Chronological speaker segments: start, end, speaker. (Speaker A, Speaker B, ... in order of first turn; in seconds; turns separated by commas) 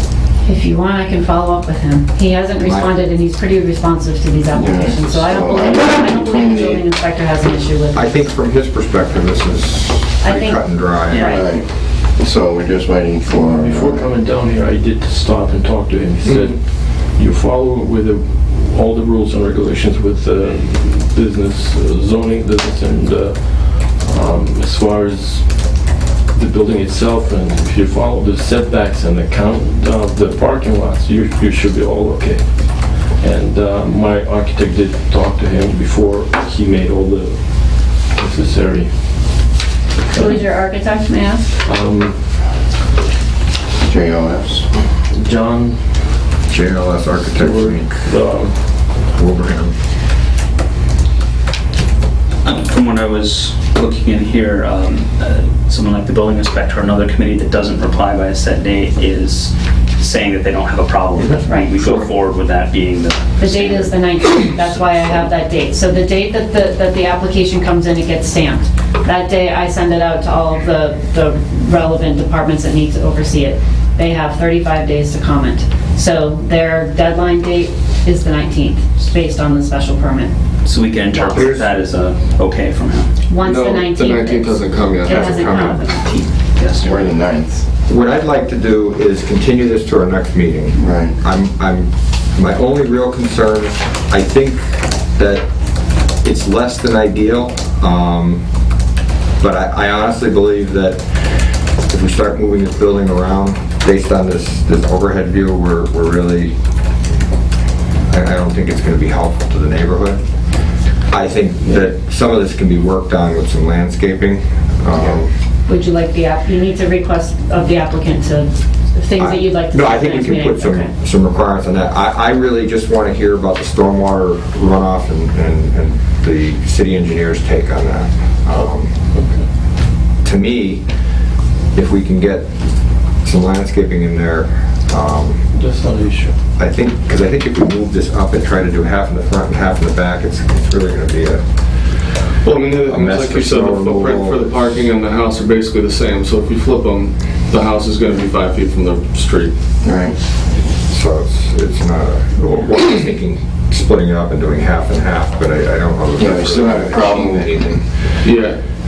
Speaker A: 0.4-8.3, Speaker B: 2.6-2.9, Speaker C: 4.5-6.8, Speaker B: 7.9-11.4, Speaker A: 10.2-11.5, Speaker D: 11.1-11.5, Speaker C: 11.2-14.1, Speaker E: 13.3-39.2, Speaker A: 40.1-41.5, Speaker E: 40.1-40.4, Speaker E: 41.6-42.2, Speaker C: 43.8-44.7, Speaker E: 45.1-45.8, Speaker B: 46.5-48.0, Speaker E: 47.2-48.6, Speaker B: 49.0-49.7, Speaker D: 52.4-65.3, Speaker A: 61.5-61.7, Speaker A: 63.4-80.3, Speaker D: 80.6-83.1, Speaker A: 81.1-81.5, Speaker B: 81.3-81.7, Speaker A: 83.3-86.3, Speaker F: 83.4-85.7, Speaker B: 85.1-85.8, Speaker D: 86.5-87.1, Speaker C: 86.8-87.7, Speaker B: 87.9-95.5, Speaker C: 90.8-91.2, Speaker B: 96.2-98.4, Speaker B: 99.4-101.0, Speaker B: 101.8-106.5, Speaker B: 108.1-110.2, Speaker B: 111.1-115.3, Speaker A: 115.7-120.9, Speaker B: 119.2-128.9, Speaker E: 129.1-129.5, Speaker B: 130.2-130.8, Speaker B: 131.7-132.5, Speaker B: 133.2-135.4, Speaker E: 135.5-136.4, Speaker B: 136.6-141.4, Speaker F: 142.4-149.5, Speaker B: 142.9-144.4, Speaker C: 149.8-150.2, Speaker B: 150.8-157.9, Speaker C: 156.2-157.7, Speaker F: 158.2-158.6